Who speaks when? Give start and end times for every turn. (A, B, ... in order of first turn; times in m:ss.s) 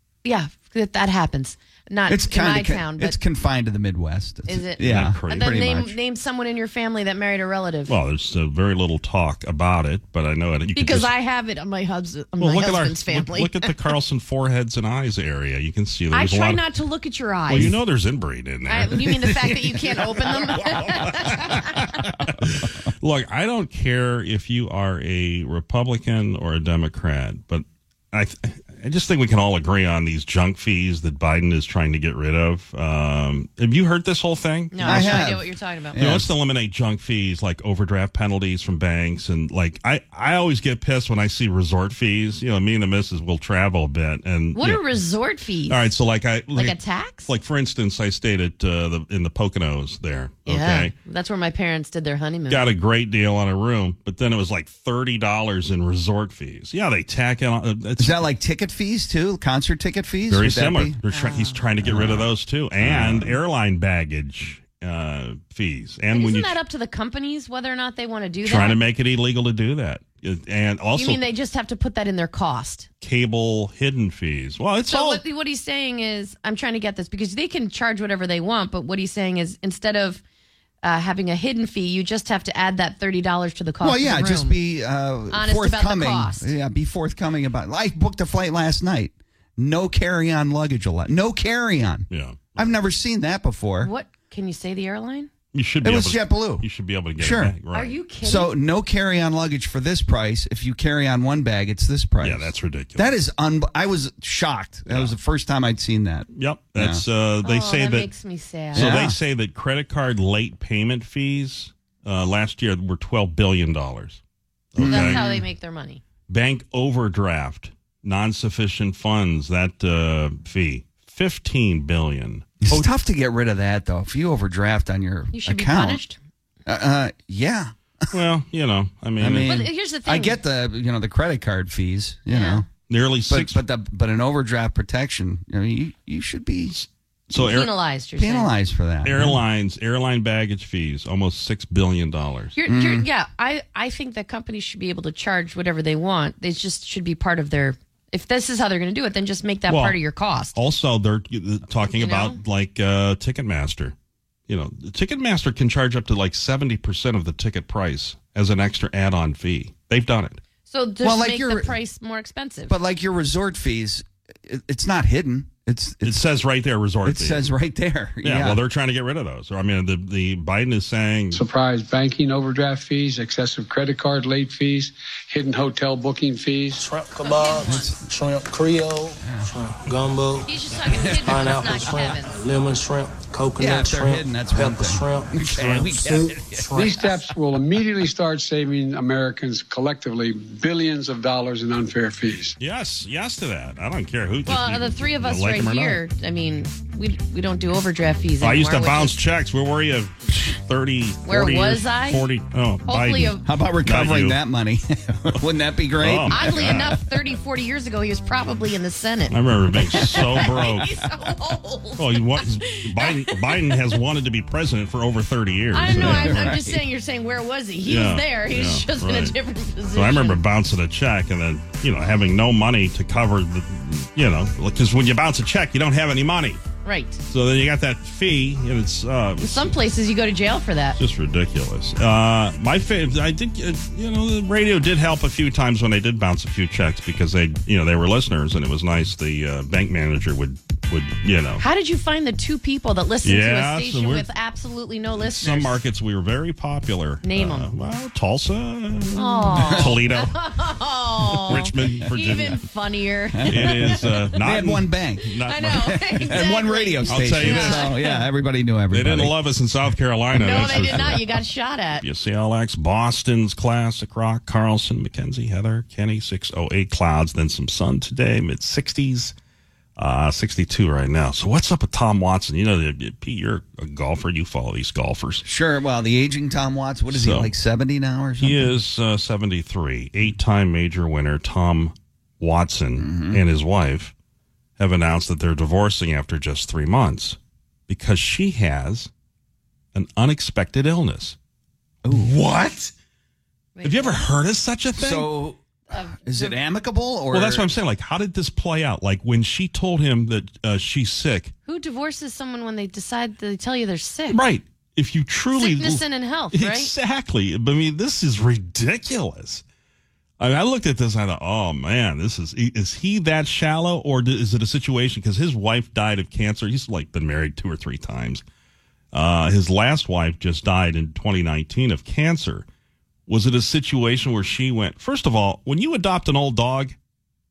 0:00.2-0:03.2 A
0:02.1-0:06.0 B
0:04.5-0:07.9 A
0:04.8-0:05.6 C
0:07.9-0:11.1 C
0:10.7-0:13.7 A
0:12.4-0:16.6 C
0:16.1-0:17.8 A
0:17.5-0:35.3 C
0:18.7-0:21.8 A
0:34.7-0:36.0 A
0:34.8-0:36.3 B
0:36.0-0:44.8 C
0:44.5-0:45.8 A
0:45.7-0:50.9 C
0:46.5-0:47.3 A
0:50.5-0:52.6 A
0:52.5-0:58.3 C
0:58.0-1:01.0 B
1:00.3-1:06.6 C
1:01.1-1:01.6 A
1:01.8-1:03.4 B
1:06.1-1:08.8 A
1:08.4-1:11.2 C
1:10.9-1:12.9 A
1:13.0-1:15.2 C
1:14.9-1:20.2 A
1:20.8-1:24.6 A
1:23.8-1:33.9 B
1:25.3-1:26.5 A
1:32.1-1:32.7 C
1:33.8-1:35.3 A
1:35.5-1:38.0 C
1:35.8-1:36.6 B
1:37.2-1:37.5 B
1:37.7-1:38.5 A
1:38.2-1:47.0 B
1:42.2-1:43.1 C
1:44.9-1:45.1 C
1:46.3-1:48.1 C
1:47.4-1:49.0 A
1:48.7-1:54.2 C
1:48.7-1:49.2 B
1:54.7-1:55.2 C
1:54.8-1:55.4 B
1:54.8-1:56.0 A
1:56.3-2:02.9 C
2:02.6-2:06.0 B
2:05.3-2:06.2 A
2:06.6-2:07.7 B
2:08.1-2:09.6 C
2:09.2-2:12.7 B
2:09.4-2:10.4 A
2:12.3-2:12.6 A
2:12.9-2:13.6 C
2:13.3-2:16.8 B
2:16.7-2:17.7 C
2:17.4-2:18.5 A
2:18.2-2:19.4 B
2:19.0-2:22.6 C
2:22.6-2:30.5 A
2:22.6-2:23.0 B
2:29.7-2:30.0 C
2:30.5-2:33.9 C
2:32.0-2:32.4 A
2:34.5-2:40.4 C
2:40.7-2:42.7 A
2:41.0-2:41.7 B
2:42.7-2:46.2 B
2:46.0-2:47.5 C
2:47.0-2:48.6 B
2:48.2-2:51.4 C
2:51.3-2:56.8 D
2:56.8-3:00.5 E
2:57.2-2:57.9 A
2:57.6-2:58.0 B
2:59.2-2:59.5 B
3:00.4-3:02.4 A
3:01.1-3:07.0 E
3:03.6-3:07.2 B
3:06.8-3:12.6 D
3:12.6-3:16.0 C
3:14.5-3:19.1 A
3:18.4-3:24.4 C
3:21.2-3:22.2 A
3:22.9-3:23.4 A
3:23.4-3:27.0 B
3:26.0-3:27.0 C
3:26.3-3:33.7 A
3:29.3-3:30.9 C
3:32.0-3:36.7 C
3:35.7-3:40.4 A
3:35.9-3:36.8 B
3:37.8-3:39.4 C
3:39.9-3:46.6 C
3:46.8-3:47.2 A
3:47.3-3:49.8 C
3:49.4-3:51.0 A
3:51.0-4:01.6 C
4:01.6-4:05.8 A
4:03.2-4:04.3 C
4:05.2-4:10.3 C
4:07.2-4:07.7 A
4:09.2-4:14.0 A
4:09.6-4:10.0 B
4:11.4-4:12.6 C
4:13.3-4:19.3 B
4:13.5-4:16.5 C
4:15.4-4:18.2 A
4:17.1-4:17.9 C
4:18.9-4:21.4 C
4:20.3-4:22.0 A
4:20.8-4:21.1 B
4:22.0-4:29.3 C
4:30.0-4:35.4 C
4:35.4-4:38.7 B
4:37.1-4:37.5 C
4:38.4-4:44.1 C
4:43.0-4:43.4 B
4:44.8-4:47.4 C
4:47.9-4:49.1 C
4:49.9-4:51.4 C
4:52.0-4:52.9 B
4:52.1-4:52.8 C
4:53.8-4:54.2 A
4:53.8-4:55.3 C
4:55.0-4:55.6 B
4:55.9-4:56.5 A
4:56.2-4:57.7 B
4:57.3-5:01.5 C
5:01.6-5:04.4 A
5:04.3-5:09.6 C
5:05.6-5:06.9 A
5:10.4-5:18.4 C
5:19.1-5:22.6 C
5:23.3-5:26.9 C